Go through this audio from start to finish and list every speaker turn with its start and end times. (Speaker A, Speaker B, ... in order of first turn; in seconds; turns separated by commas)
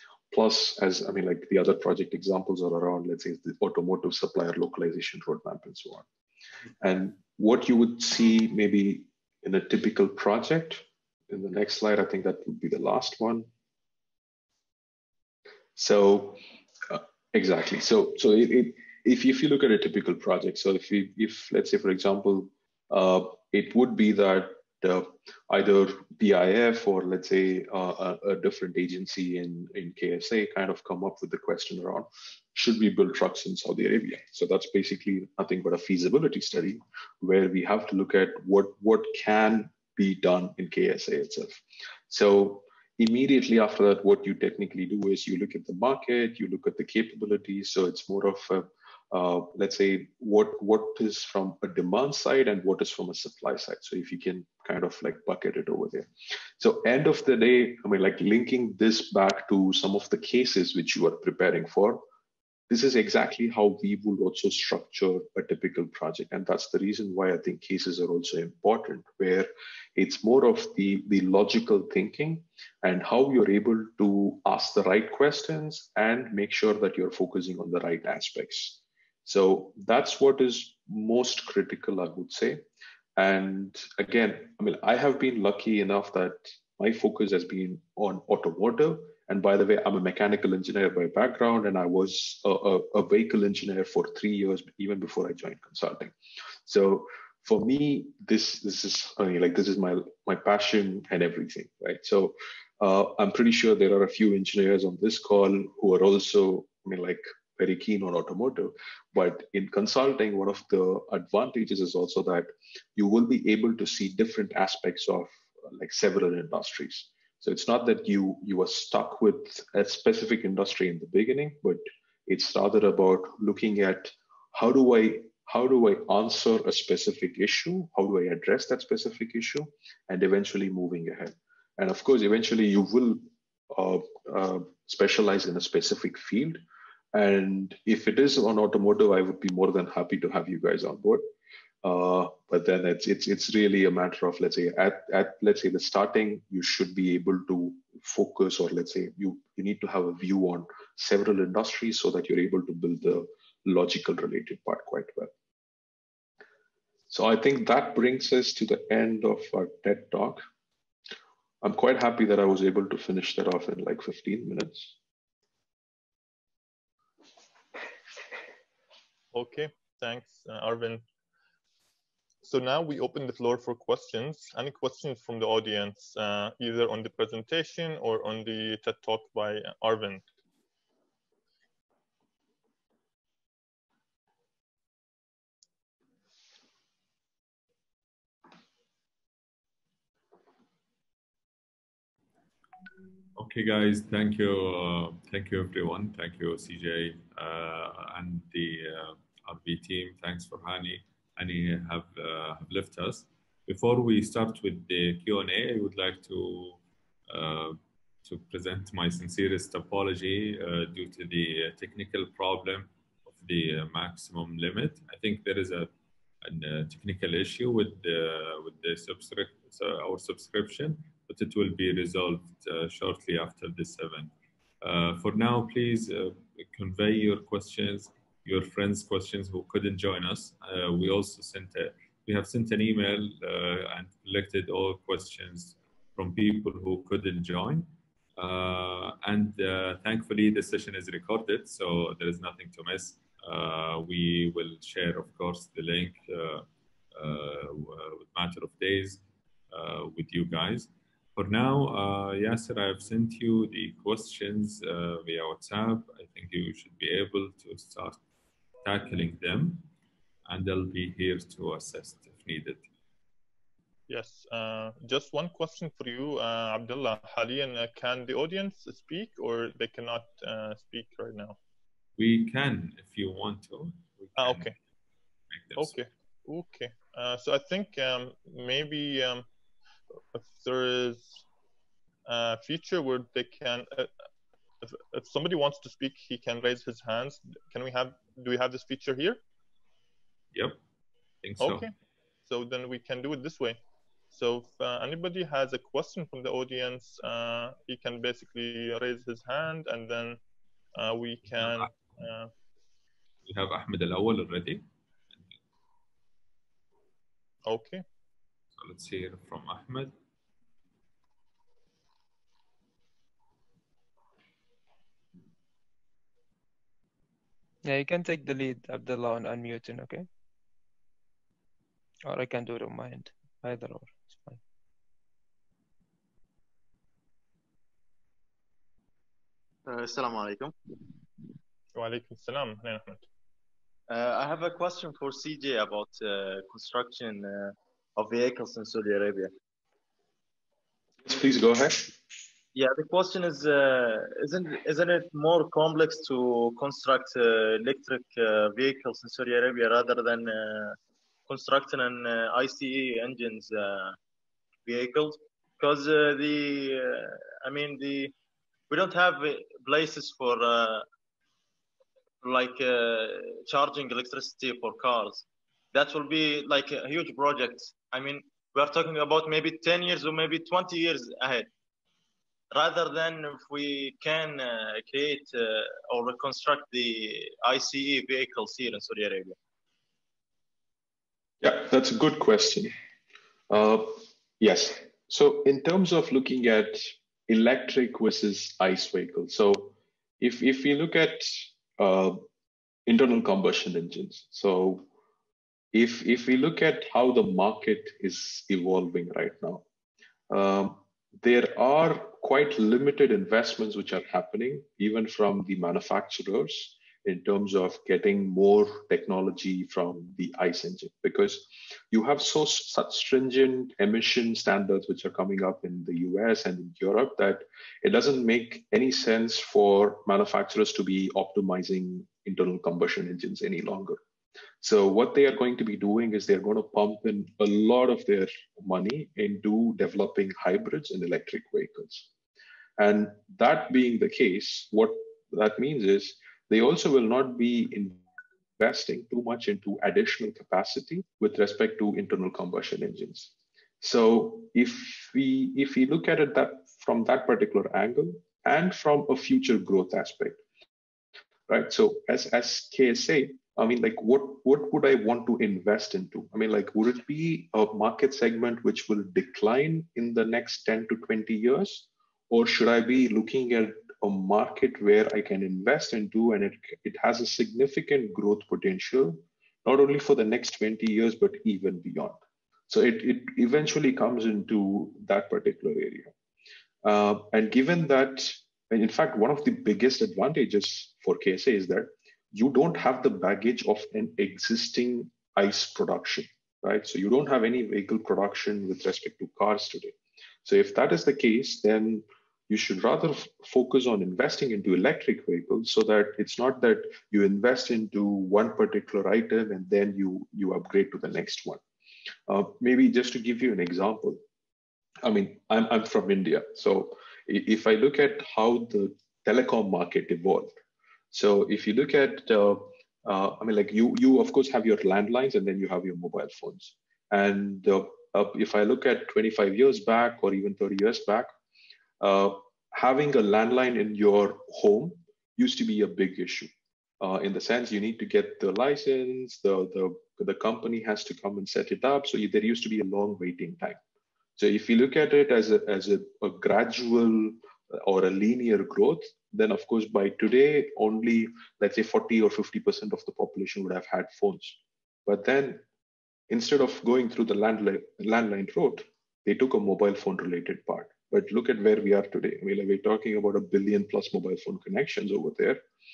Speaker A: 0.3-6.0, Speaker A: 6.8-13.5, Speaker A: 15.7-56.1, Speaker A: 56.6-62.0, Speaker A: 62.7-82.6, Speaker A: 83.2-96.1, Speaker A: 96.6-136.6, Speaker A: 137.1-141.2, Speaker A: 141.8-155.3, Speaker A: 157.1-160.4, Speaker A: 161.6-164.9, Speaker B: 169.3-171.0, Speaker B: 172.4-180.2, Speaker C: 193.3-258.2, Speaker C: 258.8-259.9, Speaker C: 260.4-262.9, Speaker B: 264.1-271.6, Speaker C: 272.2-274.7, Speaker B: 274.4-274.7, Speaker C: 275.5-275.9, Speaker B: 275.7-279.4, Speaker B: 280.3-281.4, Speaker B: 282.2-284.1, Speaker B: 284.8-289.4, Speaker C: 290.5-290.8, Speaker C: 291.4-291.9, Speaker B: 291.6-291.9, Speaker B: 292.5-293.8, Speaker B: 294.3-300.4, Speaker B: 300.9-302.5, Speaker C: 301.6-302.1, Speaker C: 303.4-305.5, Speaker B: 307.6-308.0, Speaker C: 308.8-310.1, Speaker D: 317.8-320.3, Speaker D: 322.2-324.6, Speaker E: 329.9-330.7, Speaker B: 331.9-333.2, Speaker E: 334.1-339.5, Speaker A: 341.2-342.1, Speaker E: 342.7-350.9, Speaker E: 351.5-354.1, Speaker E: 354.9-358.3, Speaker E: 358.9-361.1, Speaker E: 362.4-371.7, Speaker E: 372.7-379.6, Speaker A: 381.6-382.9, Speaker A: 383.7-392.4, Speaker A: 393.1-395.0, Speaker A: 395.9-399.8, Speaker A: 400.5-424.2, Speaker A: 424.8-432.3, Speaker A: 433.0-438.2, Speaker A: 438.8-450.6, Speaker A: 451.7-472.4, Speaker A: 472.9-476.3, Speaker A: 477.0-501.8, Speaker A: 502.5-504.4, Speaker A: 505.2-510.7, Speaker A: 511.3-521.5, Speaker A: 522.2-534.0, Speaker A: 534.6-545.8, Speaker A: 546.5-555.8